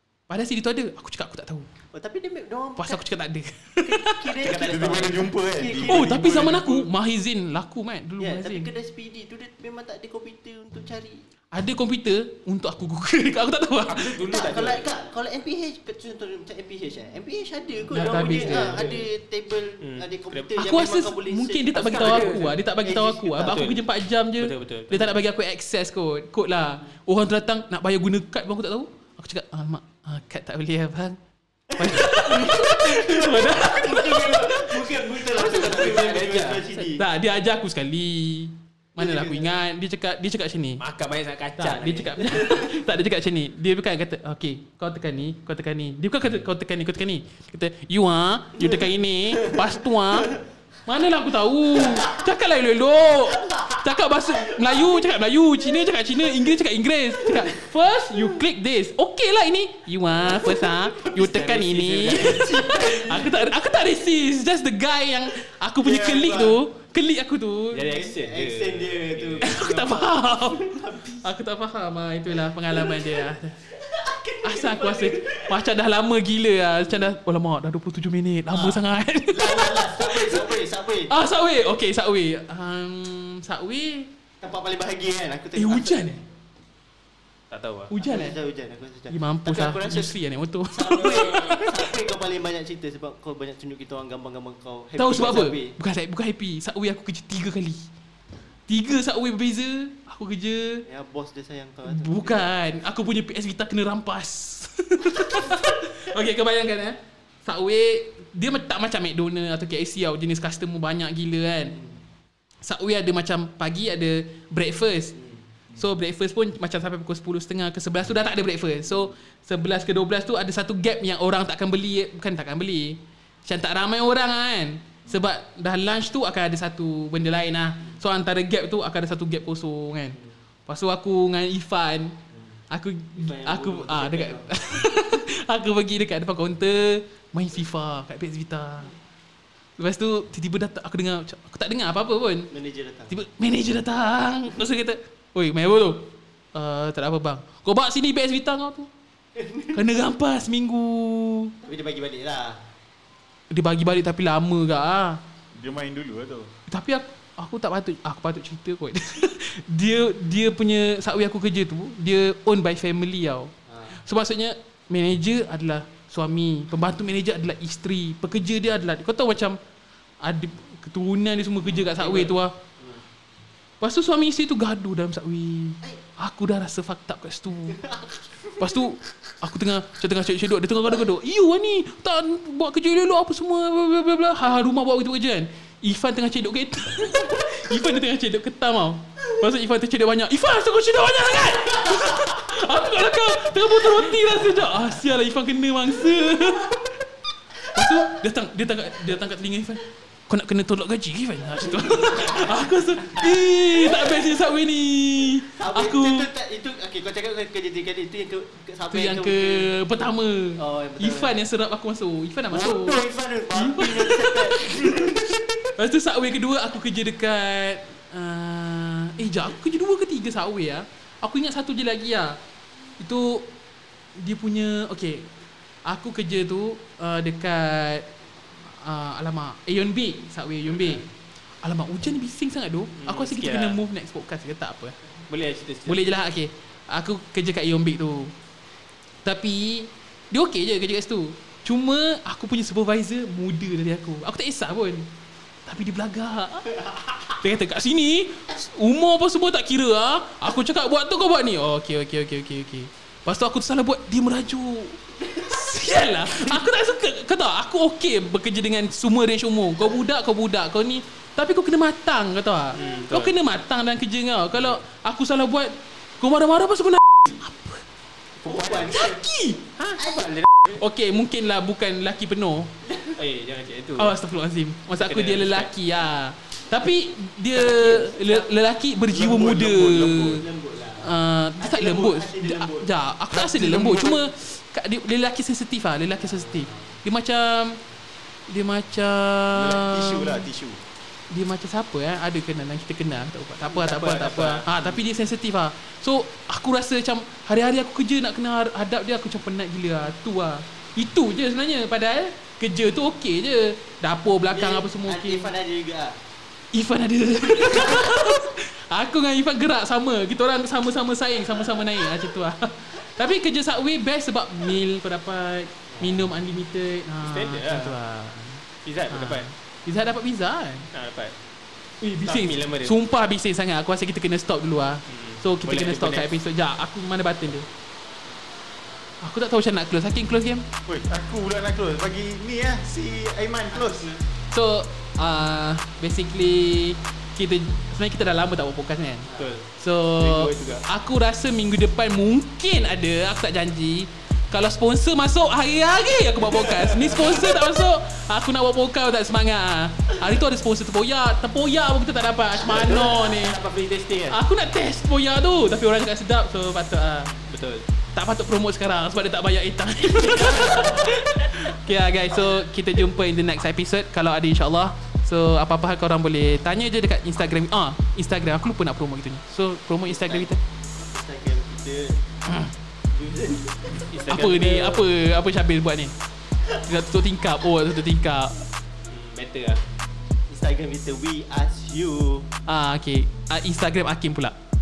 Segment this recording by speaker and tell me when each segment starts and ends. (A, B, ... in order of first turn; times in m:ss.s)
0:00.3-0:01.7 A
0:01.9-0:03.0 B
0:02.8-0:04.4 A
0:03.8-0:06.6 B
0:04.4-0:06.8 C
0:05.8-0:08.7 A
0:08.2-0:11.2 B
0:11.5-0:14.2 A
0:13.9-0:14.8 D
0:14.2-0:23.7 B
0:17.9-0:18.8 A
0:18.1-0:19.1 D
0:19.8-0:20.5 D
0:20.6-0:31.2 A
0:21.8-0:22.6 D
0:23.5-0:23.8 D
0:24.4-0:25.1 D
0:31.7-0:37.0 B
0:31.8-0:35.0 A
0:35.3-0:36.7 D
0:36.8-0:40.8 A
0:39.0-0:39.4 B
0:40.8-0:42.4 D
0:41.6-0:50.3 A
0:50.9-1:07.8 A
0:51.8-0:52.2 B
0:53.5-0:53.8 B
1:00.1-1:03.6 B
1:01.9-1:02.5 D
1:05.8-1:06.6 B
1:07.7-1:09.6 D
1:07.9-1:11.2 B
1:09.4-1:13.6 A
1:12.7-1:15.6 B
1:14.4-1:20.6 A
1:18.5-1:21.1 B
1:21.1-1:24.1 A
1:24.4-1:26.1 B
1:25.6-1:26.2 A
1:27.5-1:27.9 D
1:27.9-1:28.4 A
1:28.0-1:30.1 B
1:29.1-1:31.9 A
1:30.7-1:35.7 B
1:35.0-1:37.8 A
1:38.7-1:40.8 A
1:40.9-1:42.5 B
1:41.9-1:51.8 A
1:52.6-1:55.2 A
1:55.7-2:12.2 A
2:12.7-2:18.9 A
2:13.2-2:14.6 B
2:19.8-2:22.5 A
2:22.5-2:23.2 B
2:23.1-2:28.9 A
2:29.4-2:29.8 B
2:29.7-2:31.5 A
2:31.6-2:32.6 B
2:33.5-2:35.2 A
2:35.5-2:36.5 C
2:36.7-2:49.6 A
2:43.7-2:44.0 B
2:50.2-2:52.5 A
2:51.6-2:53.0 B
2:53.8-2:57.8 A
2:57.7-2:58.8 B
2:58.6-3:16.8 A
3:13.9-3:14.8 B
3:17.7-3:26.3 A
3:21.5-3:23.2 B
3:23.8-3:24.4 B
3:25.6-3:29.7 B
3:28.9-3:35.1 A
3:30.6-3:31.4 B
3:32.5-3:35.6 B
3:35.8-3:42.4 A
3:43.0-3:43.5 A
3:44.2-3:45.3 A
3:45.8-3:51.0 A
3:51.6-3:55.0 A
3:53.0-3:53.8 D
3:55.3-3:56.0 D
3:55.9-3:58.3 A
3:59.2-4:05.1 A
4:05.7-4:06.7 A
4:07.3-4:27.8 A
4:22.8-4:23.3 D
4:28.4-4:28.9 D
4:28.4-4:29.2 B
4:28.9-4:29.6 A
4:29.8-4:30.8 D
4:30.0-4:30.3 B
4:30.8-4:32.7 A
4:32.9-4:33.1 B
4:33.2-4:34.1 D
4:34.0-4:40.4 A
4:35.0-4:35.7 D
4:37.5-4:38.5 B
4:39.1-4:40.4 C
4:40.3-4:42.9 B
4:41.0-4:47.8 A
4:43.3-4:44.3 C
4:46.2-4:47.0 B
4:48.5-4:50.5 A
4:49.6-4:50.8 C
4:51.3-5:05.5 A
4:53.6-4:54.9 D
5:04.5-5:06.2 B
5:06.7-5:20.9 A
5:07.7-5:08.3 B
5:15.9-5:16.3 B
5:17.2-5:18.0 D
5:18.8-5:19.5 D
5:20.9-5:21.3 D
5:22.0-5:27.7 A
5:22.2-5:23.0 D
5:25.1-5:26.3 D
5:29.2-5:30.7 A
5:30.9-5:34.1 C
5:33.7-5:34.2 B
5:34.5-5:53.6 A
5:39.3-5:39.6 B
5:39.4-5:39.6 D
5:40.2-5:40.8 C
5:46.5-5:47.4 B
5:52.6-5:54.4 D
5:54.3-5:57.3 A
5:57.5-5:57.9 D
5:58.2-6:10.6 A
6:00.4-6:01.1 D
6:00.5-6:01.1 B
6:10.1-6:12.2 B
6:12.5-6:12.7 A
6:13.1-6:14.1 B
6:14.0-6:15.0 D
6:14.2-6:16.1 A
6:16.8-6:18.6 A
6:19.1-6:19.8 D
6:20.5-6:22.5 B
6:22.7-6:24.6 A